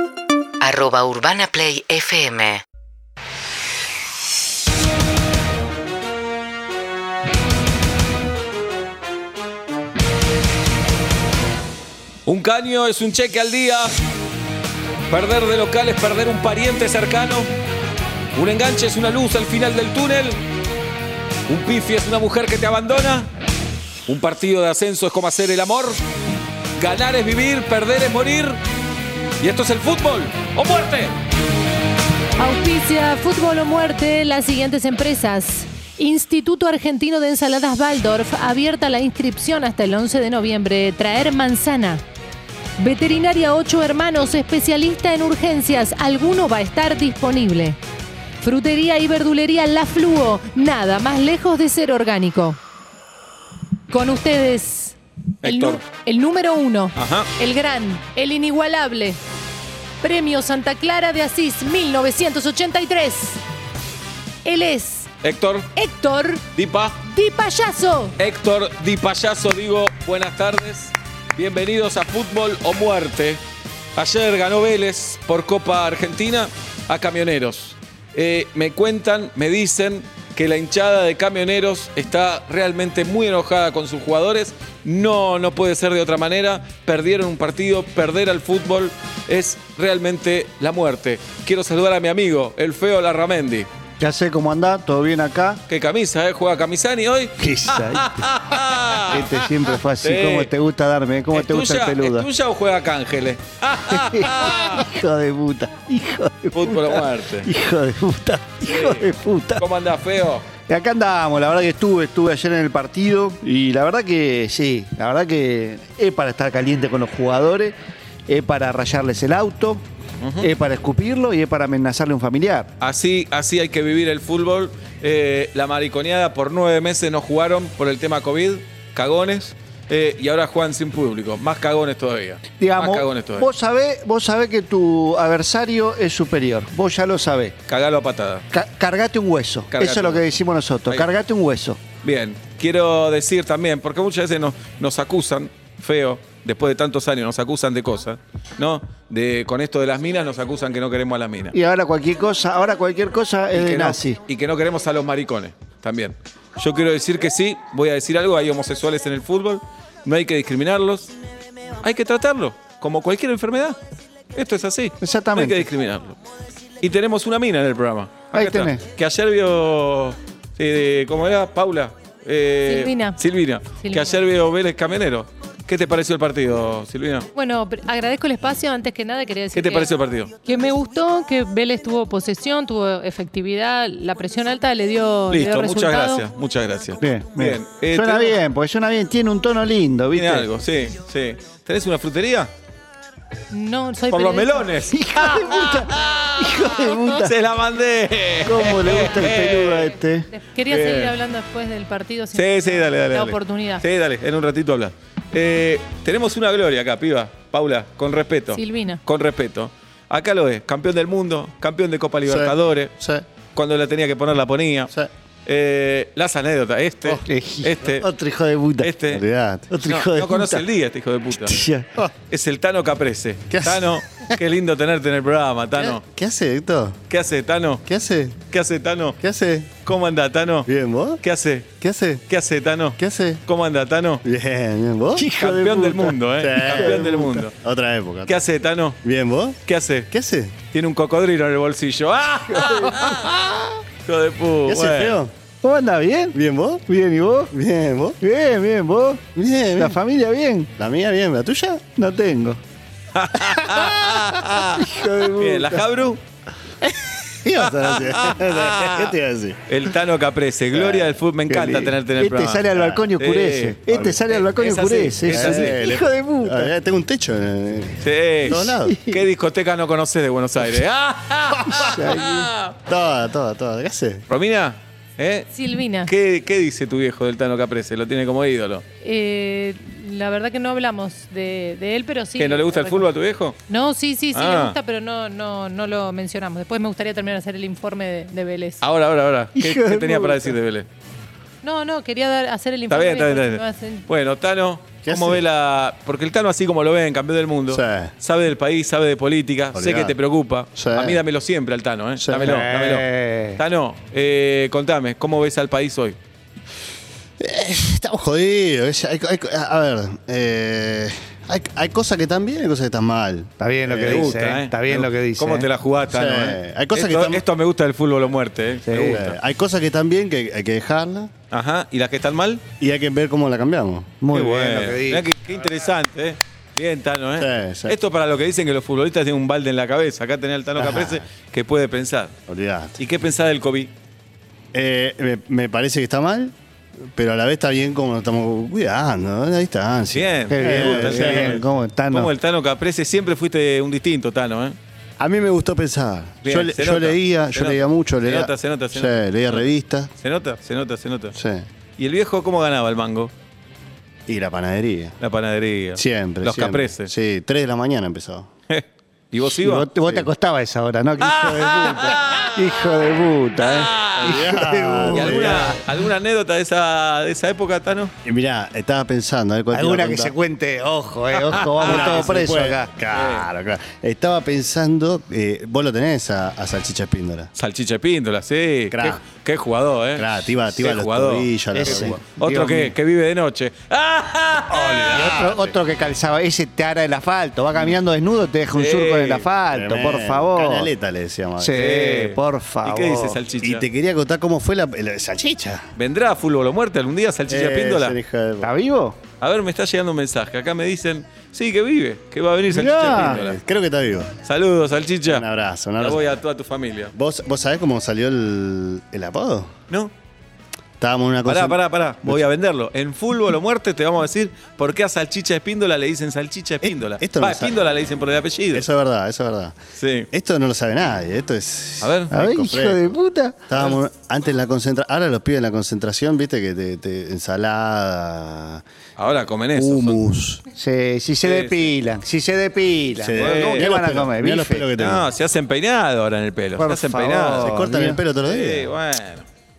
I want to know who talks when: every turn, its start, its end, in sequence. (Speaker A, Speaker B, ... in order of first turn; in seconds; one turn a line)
Speaker A: 0.6-2.6
Speaker B: 12.2-13.9
Speaker B: 15.1-17.5
Speaker B: 18.3-20.4
Speaker B: 21.5-23.3
Speaker B: 24.1-26.0
Speaker B: 26.8-28.6
Speaker B: 29.4-31.1
Speaker C: 32.4-42.0
Speaker C: 42.8-47.8
Speaker C: 48.4-52.6
Speaker C: 53.9-59.2
Speaker B: 55.4-55.8
Speaker B: 56.9-57.3
Speaker C: 60.0-63.4
Speaker C: 64.4-65.1
Speaker B: 65.2-65.7
Speaker C: 65.7-66.5
Speaker B: 66.5-67.0
Speaker C: 67.0-68.2
Speaker B: 68.2-73.4
Speaker B: 74.0-93.7
Speaker D: 94.0-95.6
Speaker B: 95.7-100.5
Speaker D: 97.4-98.3
Speaker D: 99.1-102.3
Speaker B: 101.3-104.8
Speaker D: 103.9-109.6
Speaker B: 106.5-107.5
Speaker B: 108.6-110.5
Speaker D: 110.7-117.7
Speaker D: 118.3-119.8
Speaker B: 120.2-120.5
Speaker D: 120.4-122.7
Speaker B: 122.8-133.5
Speaker D: 132.6-137.5
Speaker B: 137.7-138.4
Speaker D: 138.5-141.8
Speaker B: 139.7-140.3
Speaker B: 142.0-151.6
Speaker D: 151.5-154.2
Speaker B: 153.5-161.1
Speaker B: 161.8-163.8
Speaker B: 164.3-166.2
Speaker D: 165.0-165.7
Speaker B: 166.8-177.3
Speaker D: 168.3-168.8
Speaker C: 172.7-173.2
Speaker C: 173.8-174.2
Speaker C: 177.3-179.9
Speaker B: 179.5-180.3
Speaker C: 180.4-186.2
Speaker B: 185.3-188.4
Speaker D: 187.0-190.5
Speaker B: 190.1-192.5
Speaker C: 193.5-194.8
Speaker B: 194.1-200.0
Speaker D: 194.9-197.3
Speaker D: 198.4-200.3
Speaker C: 200.3-203.8
Speaker B: 200.7-201.1
Speaker B: 202.3-212.9
Speaker C: 208.5-209.0
Speaker E: 212.2-213.2
Speaker B: 213.5-214.9
Speaker B: 215.4-218.1
Speaker D: 217.2-218.9
Speaker B: 218.8-219.2
Speaker E: 219.1-219.8
Speaker D: 219.7-220.6
Speaker B: 219.8-221.6
Speaker D: 221.3-221.9
Speaker B: 222.3-226.0
Speaker E: 223.5-224.3
Speaker E: 225.8-227.0
Speaker B: 227.1-227.8
Speaker E: 227.8-228.4
Speaker B: 228.5-229.2
Speaker E: 229.2-229.8
Speaker B: 229.8-230.7
Speaker E: 230.7-231.2
Speaker B: 231.2-231.7
Speaker E: 231.8-232.2
Speaker B: 232.3-234.2
Speaker E: 233.0-233.4
Speaker E: 234.2-235.3
Speaker D: 235.2-237.4
Speaker B: 235.4-237.5
Speaker E: 236.4-238.4
Speaker B: 238.2-239.0
Speaker E: 239.0-240.6
Speaker B: 239.7-240.1
Speaker B: 240.7-243.4
Speaker D: 242.5-243.3
Speaker B: 244.0-245.2
Speaker E: 244.7-245.3
Speaker D: 245.6-246.3
Speaker E: 246.3-246.9
Speaker D: 246.9-247.5
Speaker E: 247.5-248.2
Speaker D: 248.2-249.2
Speaker E: 249.3-250.0
Speaker D: 249.7-250.7
Speaker E: 250.8-251.9
Speaker D: 252.0-252.6
Speaker B: 253.1-256.2
Speaker D: 254.7-255.8
Speaker E: 257.4-259.6
Speaker B: 257.7-259.1
Speaker B: 259.7-265.8
Speaker E: 260.7-261.1
Speaker D: 261.5-266.7
Speaker E: 262.7-263.1
Speaker E: 263.9-264.2
Speaker E: 265.3-269.0
Speaker B: 268.0-272.7
Speaker D: 268.5-269.2
Speaker D: 271.7-272.5
Speaker E: 272.9-274.2
Speaker B: 274.3-278.8
Speaker C: 275.5-276.1
Speaker C: 279.0-283.1
Speaker B: 282.4-283.6
Speaker C: 283.7-288.8
Speaker B: 284.3-284.8
Speaker B: 288.8-290.9
Speaker D: 289.6-290.5
Speaker C: 291.6-294.1
Speaker B: 292.9-306.2
Speaker E: 295.0-295.4
Speaker E: 297.7-298.1
Speaker E: 299.7-300.2
Speaker E: 300.7-301.2
Speaker E: 302.2-302.7
Speaker D: 302.4-303.6
Speaker E: 307.4-314.5
Speaker D: 313.6-315.7
Speaker B: 314.0-319.4
Speaker E: 316.1-317.4
Speaker D: 318.9-319.2
Speaker E: 319.0-321.3
Speaker B: 321.5-322.6
Speaker E: 322.8-324.2
Speaker D: 324.2-325.3
Speaker B: 324.3-332.3
Speaker E: 327.4-328.0
Speaker E: 330.8-331.2
Speaker E: 332.5-333.0
Speaker B: 333.0-333.9
Speaker E: 334.7-336.5
Speaker E: 337.1-341.6
Speaker B: 340.1-344.8
Speaker D: 340.5-342.3
Speaker E: 345.2-350.1
Speaker B: 346.4-349.7
Speaker B: 350.2-351.3
Speaker E: 351.3-351.7
Speaker B: 352.0-353.3
Speaker E: 354.3-355.2
Speaker B: 355.2-357.1
Speaker E: 355.9-358.5
Speaker B: 358.7-359.9
Speaker D: 359.4-365.8
Speaker E: 360.0-360.3
Speaker B: 361.2-362.5
Speaker B: 363.6-364.4
Speaker E: 364.2-365.7
Speaker B: 365.1-368.1
Speaker E: 368.2-370.4
Speaker D: 369.7-372.9
Speaker B: 371.4-372.3
Speaker E: 371.8-377.5
Speaker B: 373.1-373.5
Speaker B: 377.6-385.5
Speaker E: 378.9-379.2
Speaker E: 380.1-382.2
Speaker D: 381.7-382.9
Speaker D: 384.7-390.9
Speaker E: 384.7-385.8
Speaker B: 388.7-389.5
Speaker E: 389.7-391.9
Speaker D: 391.6-393.4
Speaker B: 391.7-393.8
Speaker E: 393.6-395.9
Speaker B: 396.0-398.1
Speaker E: 397.5-398.7
Speaker D: 398.6-399.2
Speaker B: 399.4-403.6
Speaker D: 402.7-403.4
Speaker E: 403.1-404.3
Speaker B: 404.4-405.4
Speaker E: 405.2-406.2
Speaker B: 406.0-407.1
Speaker E: 407.1-409.7
Speaker E: 411.0-412.4
Speaker B: 411.4-418.9
Speaker E: 416.8-417.8
Speaker E: 418.7-419.8
Speaker B: 420.0-420.3
Speaker E: 420.3-428.8
Speaker B: 422.0-422.3
Speaker D: 422.3-423.7
Speaker B: 429.2-430.2
Speaker E: 429.7-430.6
Speaker D: 430.7-434.9
Speaker B: 431.4-432.0
Speaker E: 433.2-435.3
Speaker B: 433.4-433.9
Speaker B: 435.0-437.8
Speaker D: 436.8-438.2
Speaker E: 437.5-438.9
Speaker B: 438.4-439.5